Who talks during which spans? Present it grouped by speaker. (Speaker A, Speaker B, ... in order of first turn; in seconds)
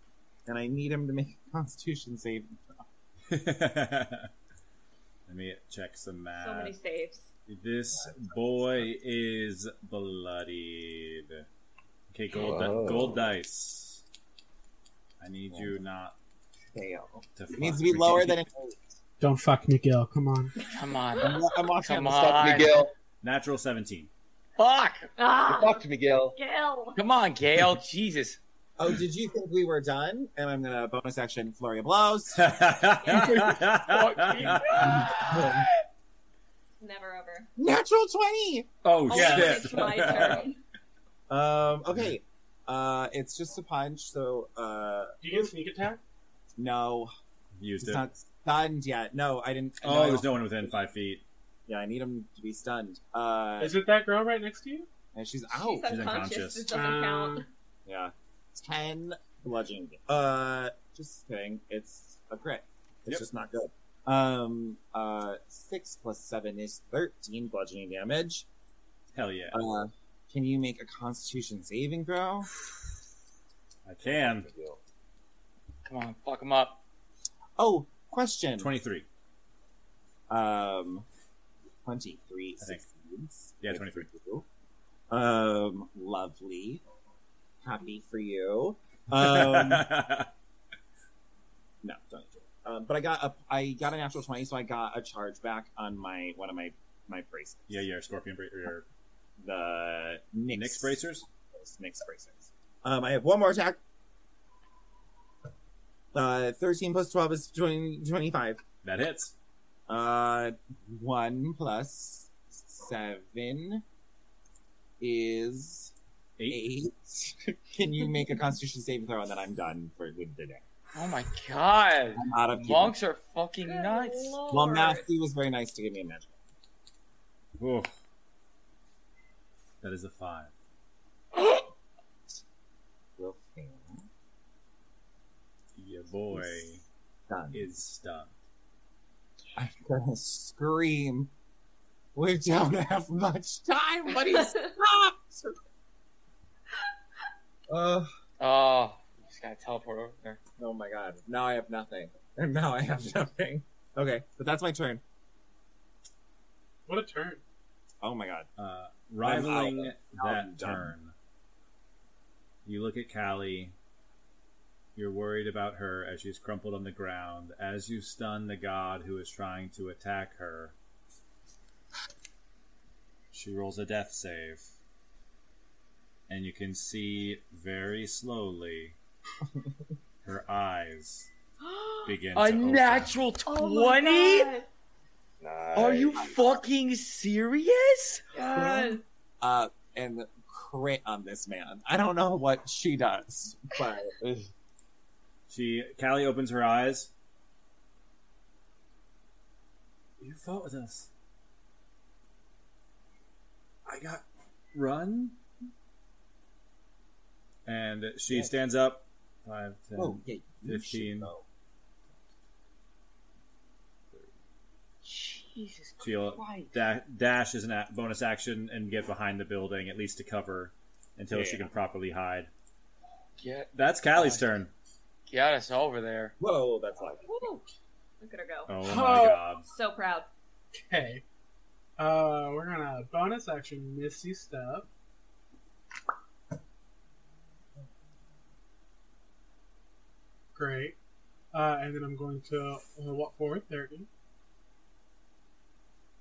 Speaker A: 0.5-2.6, 7.9-8.9, 15.5-15.8, 16.7-19.0, 21.2-22.7, 28.8-32.5, 34.5-35.6, 37.6-38.7, 41.3-45.5, 46.6-47.1, 47.8-50.7, 51.7-53.8, 55.1-56.1, 57.9-68.5, 69.5-72.5, 77.6-78.7, 80.3-81.0, 81.8-84.4, 85.1-86.8, 87.6-89.9, 91.8-97.8, 99.4-103.8, 106.1-108.6, 109.9-113.8, 115.0-115.9, 116.5-120.6, 122.2-123.0, 124.5-126.3, 133.2-134.1, 136.3-136.7, 137.3-137.7, 139.5-141.3, 142.1-145.6, 147.7-148.1, 150.6-155.0, 158.0-158.5, 159.2-160.9, 188.5-194.1, 209.9-211.4, 221.3-221.7, 226.4-227.2
Speaker B: 3.3-4.3, 5.3-6.8, 7.5-11.5, 12.1-14.0, 15.2-16.1, 17.4-18.4, 23.2-24.1, 32.4-35.0, 38.8-40.4, 47.5-48.1, 49.8-51.2, 55.8-56.7, 69.1-69.6, 73.8-74.5, 78.6-79.1, 83.6-84.1, 89.1-90.3, 97.7-98.8, 100.5-101.2, 108.8-109.3, 116.4-116.7, 127.6-127.9, 129.8-130.5, 135.8-136.8, 137.5-138.3, 158.6-161.1, 162.6-163.7, 164.9-170.7, 173.3-174.7, 176.3-178.9, 180.2-181.3, 182.0-183.2, 195.5-197.1, 200.2-201.1, 203.8-204.2, 204.7-205.4, 207.7-211.3, 216.0-222.5, 223.7-224.7, 228.7-229.7
Speaker C: 6.3-7.3, 25.2-25.8, 26.3-27.0, 32.9-33.7, 36.8-37.5, 39.1-40.6, 55.5-57.5, 123.6-125.0, 144.2-144.7, 181.6-182.1, 183.4-184.7, 188.3-189.0, 227.2-227.7, 228.2-228.8, 229.6-230.3
Speaker D: 12.3-13.3, 22.4-22.9, 25.4-26.4, 74.0-74.8, 185.4-186.5, 194.2-194.5
Speaker E: 19.2-20.5, 39.1-40.0, 45.2-46.0, 53.6-54.9, 56.7-57.5, 156.9-157.4, 228.8-229.4, 230.8-231.2, 232.0-234.9, 240.5-241.0, 241.5-244.1
Speaker F: 20.6-22.8, 24.6-25.1, 26.9-28.4, 33.7-35.6, 75.8-76.8, 120.9-124.4, 131.3-131.6, 148.4-150.4, 182.3-184.5, 185.7-188.3, 215.0-216.8, 223.4-224.5, 225.3-226.3